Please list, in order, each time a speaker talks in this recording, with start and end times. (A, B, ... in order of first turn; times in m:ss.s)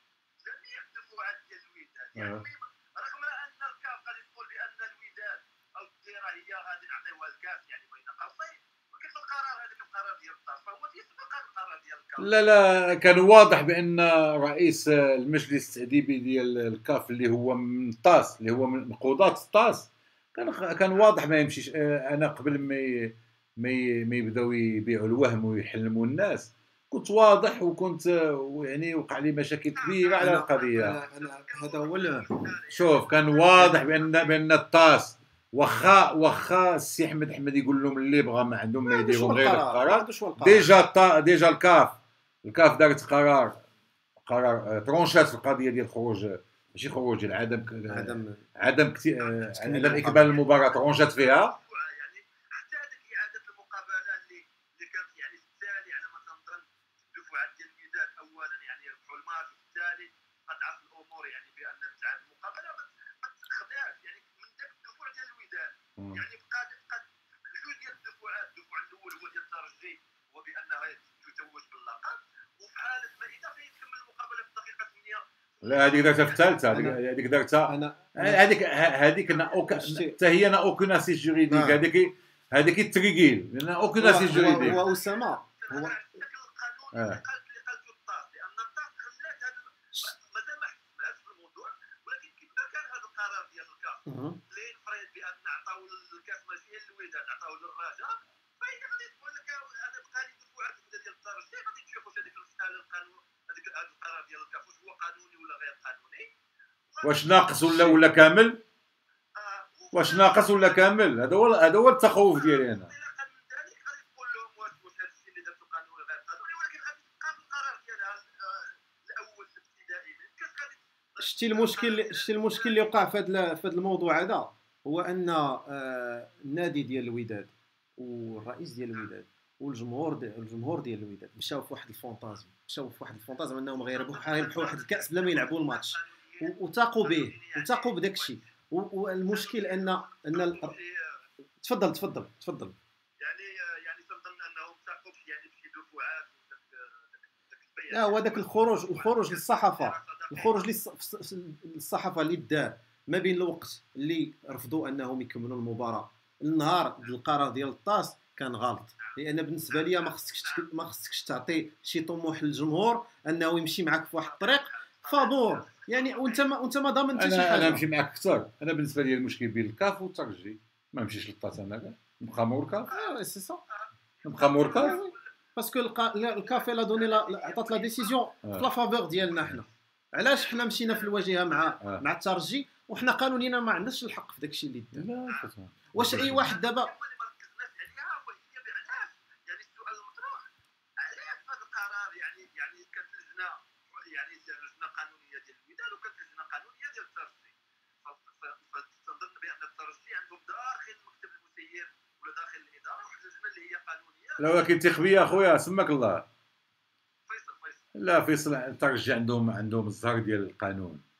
0:00.4-0:12.4 A
0:02.2-0:02.4 B
0:12.2-0:31.0 B
0:29.7-0:34.3 A
0:30.2-0:32.4 C
0:32.7-0:43.6 B
0:38.8-0:40.7 C
0:44.2-0:51.6 B
0:47.9-0:48.5 C
0:49.2-0:49.5 A
0:49.5-0:50.4 C
0:50.9-1:16.5 A
1:06.0-1:06.2 B
1:15.6-1:24.8 B
1:16.7-1:17.0 C
1:17.7-1:18.5 C
1:19.7-1:20.2 C
1:21.5-1:21.8 C
1:24.0-1:26.0 C
1:24.0-1:46.3 A
1:26.9-1:27.2 B
1:34.1-1:34.4 C
1:46.9-1:47.6 A
1:47.0-1:48.6 B
1:47.7-1:48.0 C
1:49.4-1:50.9 A
1:49.9-1:52.9 B
1:52.1-2:02.9 A
2:01.2-2:20.8 C
2:13.8-2:18.4 A
2:19.3-2:21.2 A
2:21.6-2:22.8 C
2:23.2-2:30.7 A
2:27.9-2:47.8 C
2:39.7-2:40.7 A
2:44.2-2:46.5 A
2:47.2-2:52.9 B
2:52.9-2:53.2 A
2:52.9-2:53.6 C
2:53.7-2:55.3 A
2:54.2-2:55.0 B
2:54.7-3:05.1 C
2:56.4-2:58.2 A
2:59.3-2:59.6 B
3:00.4-3:01.8 A
3:04.9-3:06.5 B
3:06.0-3:06.9 C
3:06.2-3:10.5 A
3:11.0-3:17.5 A
3:18.0-3:24.6 A
3:24.4-3:26.3 B
3:27.3-3:27.8 A
3:28.0-3:31.0 B